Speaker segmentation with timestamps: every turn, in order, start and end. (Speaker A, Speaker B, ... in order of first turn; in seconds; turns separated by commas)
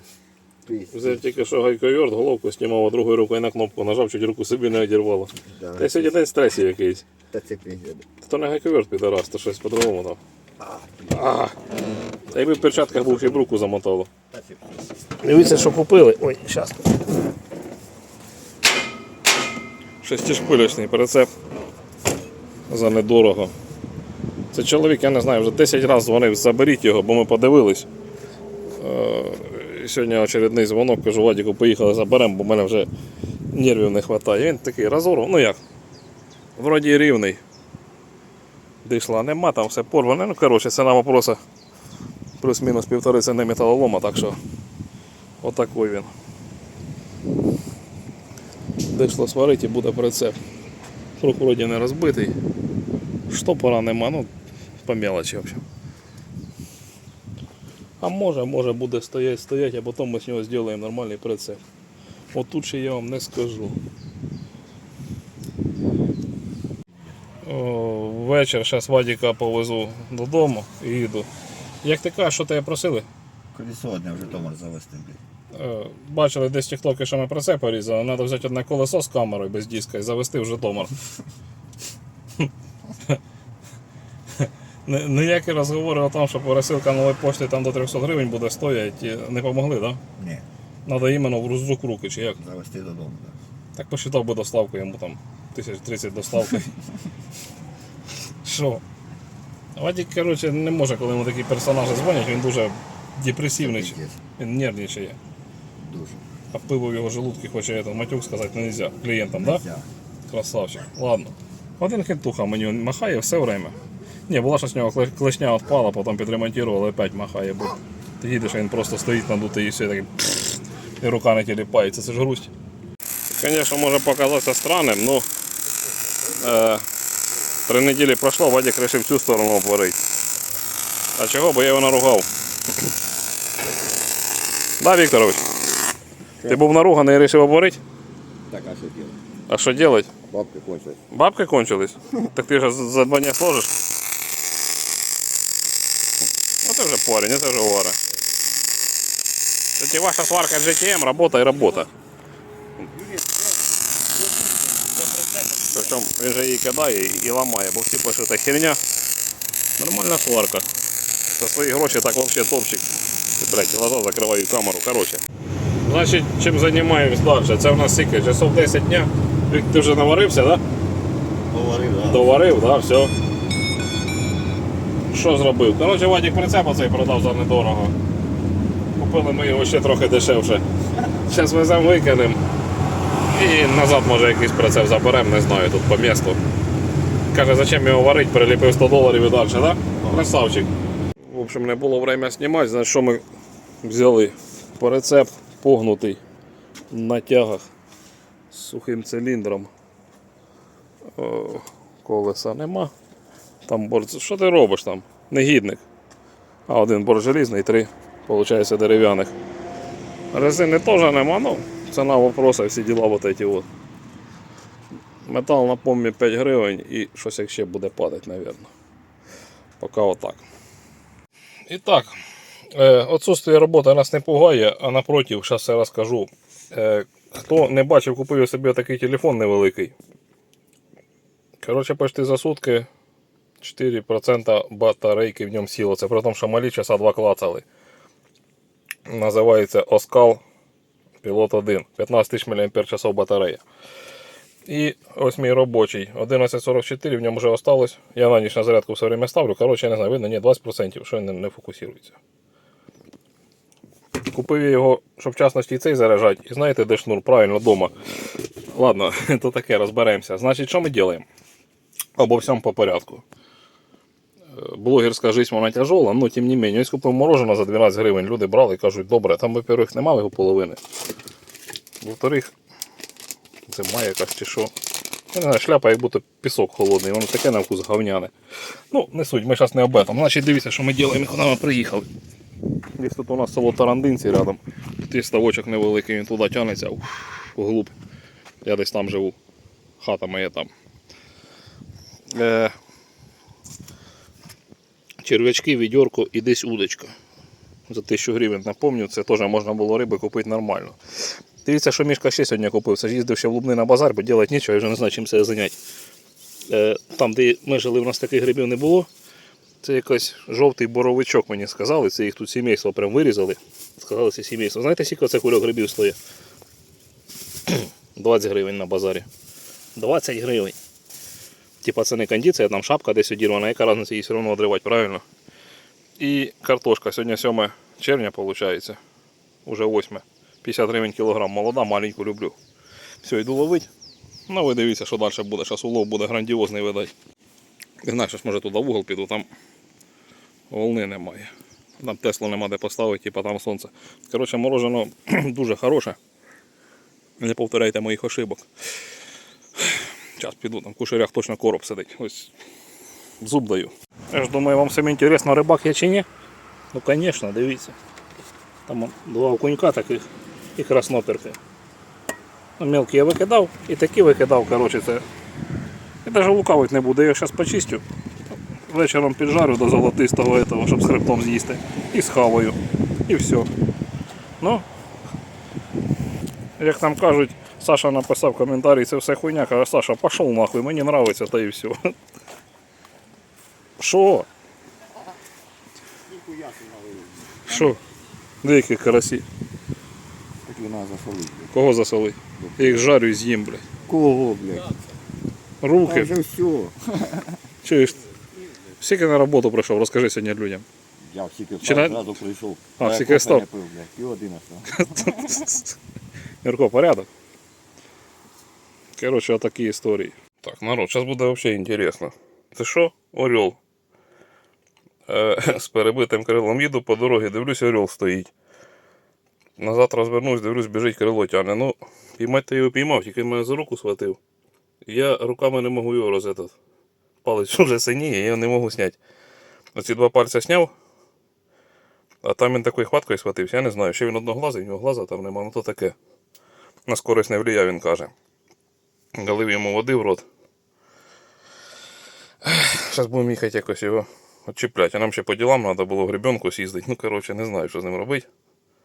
Speaker A: 0.7-1.4, Speaker B: 0.9-7.0, Speaker A: 5.4-6.1, Speaker A: 7.3-8.1, Speaker B: 8.2-10.2, Speaker A: 10.6-11.3, Speaker B: 11.1-11.5, Speaker B: 12.3-14.1, Speaker A: 12.4-13.5, Speaker A: 14.3-14.7, Speaker B: 15.2-16.9, Speaker B: 20.0-21.3, Speaker B: 22.7-23.5, Speaker B: 24.5-27.9, Speaker B: 28.8-32.9, Speaker B: 33.5-35.6, Speaker B: 36.6-37.4, Speaker B: 38.8-41.4, Speaker B: 42.4-44.4, Speaker B: 45.4-46.1, Speaker B: 48.9-50.4, Speaker B: 51.2-52.4, Speaker B: 53.3-54.3, Speaker B: 54.8-55.6, Speaker B: 58.0-61.6, Speaker B: 62.3-63.8, Speaker B: 67.4-71.3, Speaker B: 71.8-73.0, Speaker A: 73.5-75.2, Speaker B: 75.5-80.9, Speaker B: 84.4-90.0, Speaker A: 90.2-90.4, Speaker B: 90.9-92.4, Speaker A: 92.4-93.4, Speaker B: 93.8-96.7, Speaker B: 98.4-98.8, Speaker B: 99.8-105.2, Speaker A: 103.5-104.2, Speaker A: 105.8-106.2, Speaker B: 106.5-109.6, Speaker A: 109.4-109.9, Speaker B: 110.3-113.8, Speaker B: 114.3-122.5, Speaker B: 123.4-125.2, Speaker B: 126.3-126.8, Speaker B: 127.7-130.0, Speaker B: 131.2-132.3, Speaker B: 134.8-135.4, Speaker B: 136.5-137.8, Speaker A: 138.5-139.2, Speaker B: 139.5-140.1, Speaker A: 140.2-141.0, Speaker B: 141.1-143.8, Speaker B: 146.6-148.0, Speaker B: 149.8-151.9, Speaker A: 153.0-153.4, Speaker B: 155.6-158.8, Speaker B: 159.8-160.7, Speaker B: 161.3-165.2, Speaker B: 165.8-170.6, Speaker A: 171.5-172.4, Speaker B: 172.0-173.1, Speaker B: 175.1-177.9, Speaker B: 179.0-182.4, Speaker B: 183.3-186.4, Speaker B: 187.3-190.7, Speaker A: 190.0-190.3, Speaker B: 191.2-193.2, Speaker B: 193.8-196.2, Speaker B: 196.9-197.7, Speaker B: 198.5-199.7, Speaker B: 201.2-202.9, Speaker B: 203.7-205.8, Speaker B: 206.7-209.3, Speaker B: 210.3-213.7, Speaker B: 215.3-218.7, Speaker B: 219.8-220.4, Speaker B: 221.7-222.1, Speaker B: 222.7-229.9, Speaker B: 231.6-232.9, Speaker B: 233.6-237.7, Speaker B: 239.1-240.4, Speaker B: 241.2-243.6, Speaker B: 244.7-252.2, Speaker B: 254.2-257.9, Speaker B: 258.7-261.2, Speaker B: 262.2-263.2, Speaker B: 264.5-270.8, Speaker B: 272.0-272.5, Speaker B: 273.7-274.7, Speaker B: 275.3-278.3, Speaker B: 278.9-282.1, Speaker B: 283.0-287.9, Speaker B: 288.6-289.3, Speaker B: 290.0-290.7, Speaker B: 292.3-292.7, Speaker B: 295.2-297.1, Speaker B: 297.9-301.0, Speaker B: 301.6-305.8, Speaker B: 306.7-309.1, Speaker B: 309.8-316.1, Speaker B: 317.7-319.3, Speaker B: 319.9-320.8, Speaker B: 321.8-325.2, Speaker B: 326.2-329.0, Speaker B: 329.6-332.5, Speaker B: 333.2-333.9, Speaker B: 334.5-337.1, Speaker B: 338.0-339.5, Speaker B: 340.7-346.2, Speaker B: 347.4-348.6, Speaker B: 349.8-352.5, Speaker B: 353.4-356.2, Speaker B: 356.9-357.9, Speaker B: 358.9-360.2, Speaker B: 360.8-361.6, Speaker B: 362.8-365.2, Speaker B: 366.2-368.0, Speaker B: 368.9-373.7, Speaker B: 374.6-374.8, Speaker B: 376.8-381.9, Speaker B: 384.0-384.5, Speaker A: 386.3-387.9, Speaker B: 387.7-388.0, Speaker B: 388.6-389.4, Speaker A: 390.6-391.7, Speaker B: 391.7-393.9, Speaker A: 392.6-393.1, Speaker A: 394.1-394.9, Speaker B: 395.8-396.3, Speaker A: 396.0-397.6, Speaker B: 397.8-398.2, Speaker B: 399.0-400.9, Speaker A: 401.3-405.5, Speaker B: 401.8-402.2, Speaker B: 403.0-403.6, Speaker B: 404.9-405.9, Speaker B: 406.6-407.3, Speaker B: 409.2-413.8, Speaker B: 415.3-418.5, Speaker B: 419.8-424.4, Speaker B: 425.0-426.7, Speaker B: 427.4-429.2, Speaker B: 429.9-430.9, Speaker B: 432.4-436.1, Speaker B: 437.1-438.3, Speaker B: 439.4-440.4, Speaker B: 442.6-448.4